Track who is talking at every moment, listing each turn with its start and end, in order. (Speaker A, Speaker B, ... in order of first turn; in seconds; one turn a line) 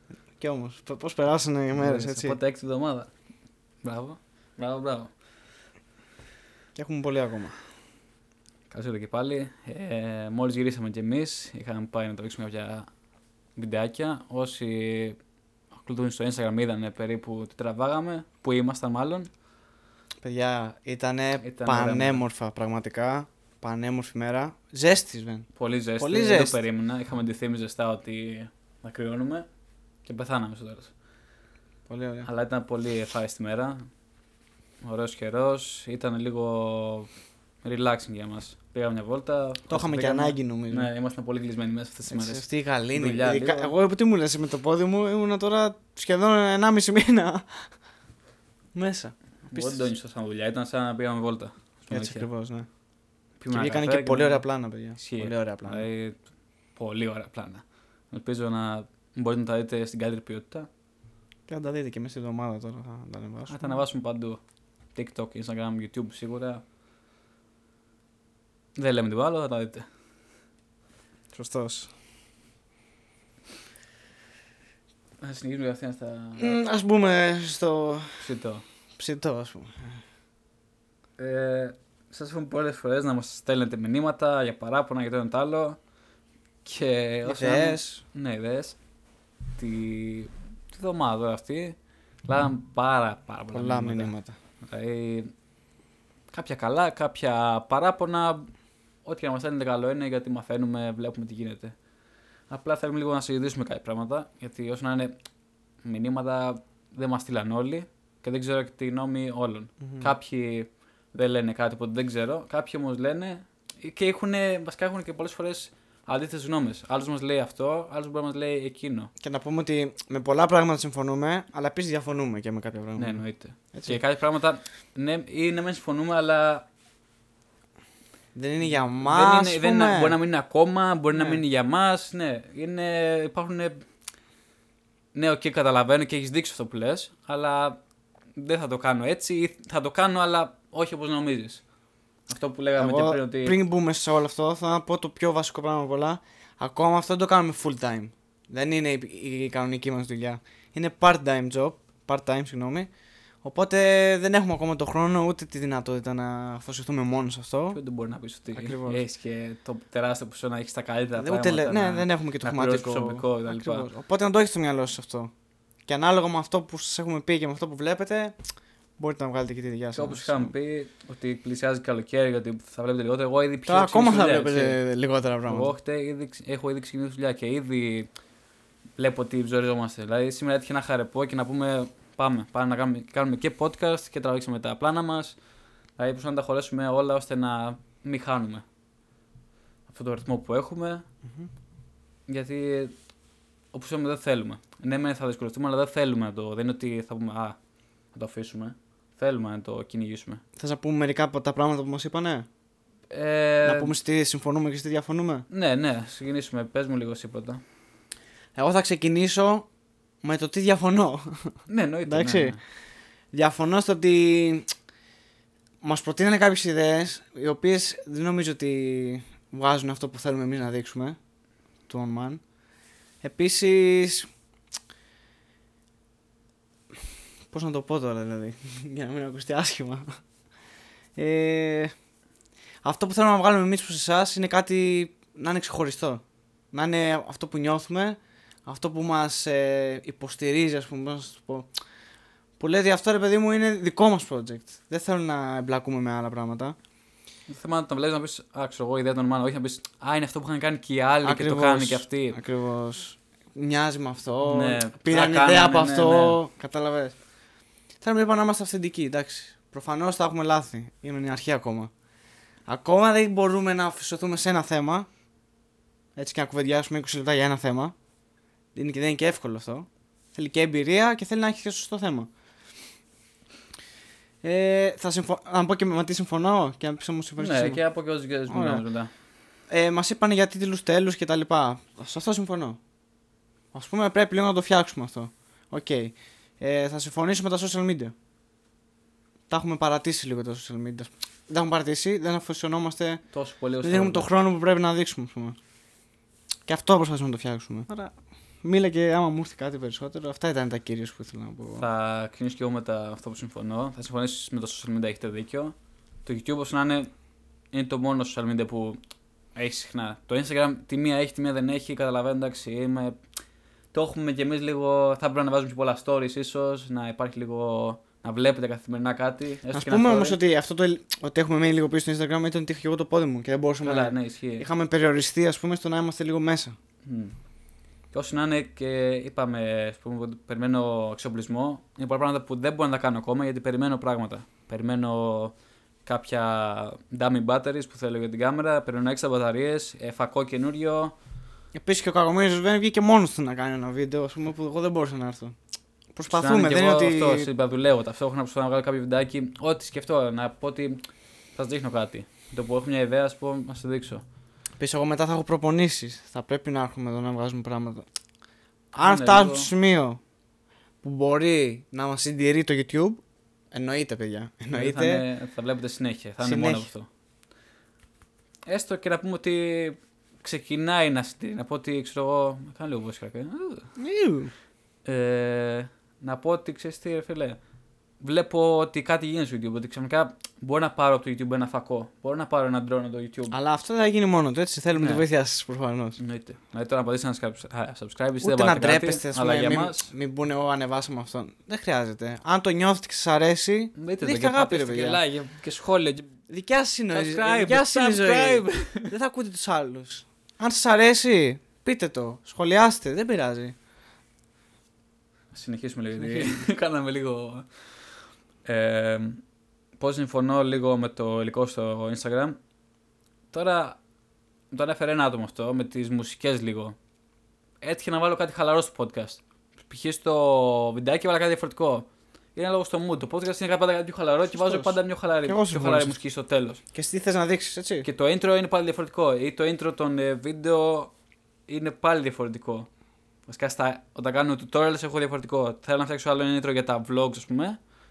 Speaker A: 0.4-2.4
Speaker B: 1.8-3.1
Speaker B: 3.8-5.1
Speaker A: 6.8-7.6
Speaker B: 8.7-12.9
Speaker B: 13.6-15.2
Speaker B: 15.7-19.3
Speaker A: 20.2-25.5
Speaker B: 21.4-22.2
Speaker B: 25.6-29.5
Speaker A: 26.0-26.6
Speaker B: 30.1-30.9
Speaker A: 31.9-32.3
Speaker B: 32.2-33.8
Speaker B: 34.8-37.1
Speaker B: 37.6-43.8
Speaker A: 39.7-40.9
Speaker A: 42.1-47.7
Speaker A: 48.7-49.9
Speaker B: 49.5-52.3
Speaker A: 51.9-52.7
Speaker B: 53.4-54.4
Speaker A: 53.5-55.9
Speaker B: 55.0-56.2
Speaker B: 56.8-60.7
Speaker A: 61.5-63.8
Speaker B: 63.5-64.4
Speaker B: 65.0-66.6
Speaker B: 68.8-69.9
Speaker A: 71.3-71.9
Speaker B: 75.2-76.6
Speaker A: 76.4-78.2
Speaker B: 78.2-78.6
Speaker A: 79.0-79.8
Speaker B: 81.2-85.8
Speaker B: 86.7-88.8
Speaker A: 87.2-88.0
Speaker B: 89.6-95.3
Speaker A: 93.5-94.3
Speaker B: 96.3-98.5
Speaker B: 99.0-101.7
Speaker B: 102.5-105.1
Speaker B: 105.8-119.1
Speaker A: 109.8-110.1
Speaker A: 119.2-123.2
Speaker B: 123.0-126.7
Speaker A: 123.7-124.0
Speaker A: 128.3-130.2
Speaker B: 128.6-133.8
Speaker A: 131.1-131.4
Speaker B: 135.1-137.8
Speaker B: 138.4-141.6
Speaker B: 142.3-143.6
Speaker A: 142.8-152.9
Speaker A: 153.4-157.8
Speaker B: 157.7-163.9
Speaker A: 158.5-159.0
Speaker A: 161.2-165.3
Speaker A: 165.9-168.4
Speaker A: 169.0-170.5
Speaker B: 169.9-174.8
Speaker A: 173.7-175.7
Speaker B: 175.5-178.1
Speaker B: 179.0-185.4
Speaker B: 186.0-188.6
Speaker B: 189.9-191.0
Speaker B: 192.3-192.9
Speaker B: 193.7-197.6
Speaker B: 198.1-200.4
Speaker A: 200.6-202.5
Speaker B: 203.1-203.9
Speaker A: 203.6-205.5
Speaker B: 205.5-207.6
Speaker A: 208.6-209.7
Speaker A: 210.2-211.5
Speaker B: 211.7-212.6
Speaker A: 212.1-212.6
Speaker A: 213.3-214.7
Speaker A: 215.8-221.2
Speaker A: 221.9-222.4
Speaker A: 223.2-224.3
Speaker A: 227.5-230.2
Speaker A: 231.2-231.9
Speaker A: 232.8-241.7
Speaker A: 242.6-246.8
Speaker B: 247.5-252.4
Speaker A: 251.2-257.2
Speaker B: 254.5-256.4
Speaker A: 258.0-261.9
Speaker A: 262.7-265.1
Speaker A: 266.2-267.9
Speaker A: 268.8-272.3
Speaker A: 274.4-277.8
Speaker B: 277.4-279.1
Speaker A: 278.5-278.8
Speaker A: 279.7-282.8
Speaker A: 283.7-288.1
Speaker A: 289.5-293.2
Speaker B: 293.3-294.3
Speaker A: 293.8-295.6
Speaker A: 296.7-301.9
Speaker B: 301.8-307.1
Speaker B: 307.7-309.0
Speaker B: 309.6-313.2
Speaker B: 313.9-320.4
Speaker A: 319.7-326.7
Speaker B: 323.8-324.7
Speaker B: 327.1-327.3
Speaker B: 328.1-335.5
Speaker B: 336.1-341.1
Speaker A: 341.7-345.5
Speaker A: 346.1-347.5
Speaker B: 346.3-351.0
Speaker B: 351.6-354.2
Speaker A: 354.8-358.1
Speaker B: 359.0-359.7
Speaker A: 359.0-360.2
Speaker A: 361.0-363.2
Speaker A: 363.7-365.2
Speaker B: 364.7-367.1
Speaker A: 366.4-366.9
Speaker B: 368.7-373.9
Speaker A: 374.0-374.5
Speaker B: 375.1-377.6
Speaker B: 378.2-383.6
Speaker A: 383.5-386.2
Speaker B: 385.0-385.2
Speaker B: 386.2-390.1
Speaker A: 388.4-395.2
Speaker B: 394.0-396.3
Speaker A: 396.5-403.8
Speaker B: 397.1-399.1
Speaker B: 405.5-407.9
Speaker A: 406.2-406.6
Speaker B: 408.6-409.4
Speaker B: 410.0-412.6
Speaker B: 413.5-414.0
Speaker B: 414.7-417.0
Speaker B: 417.8-426.8
Speaker A: 424.5-426.2
Speaker A: 426.9-428.1
Speaker B: 428.0-431.1
Speaker B: 431.7-432.9
Speaker B: 433.5-437.8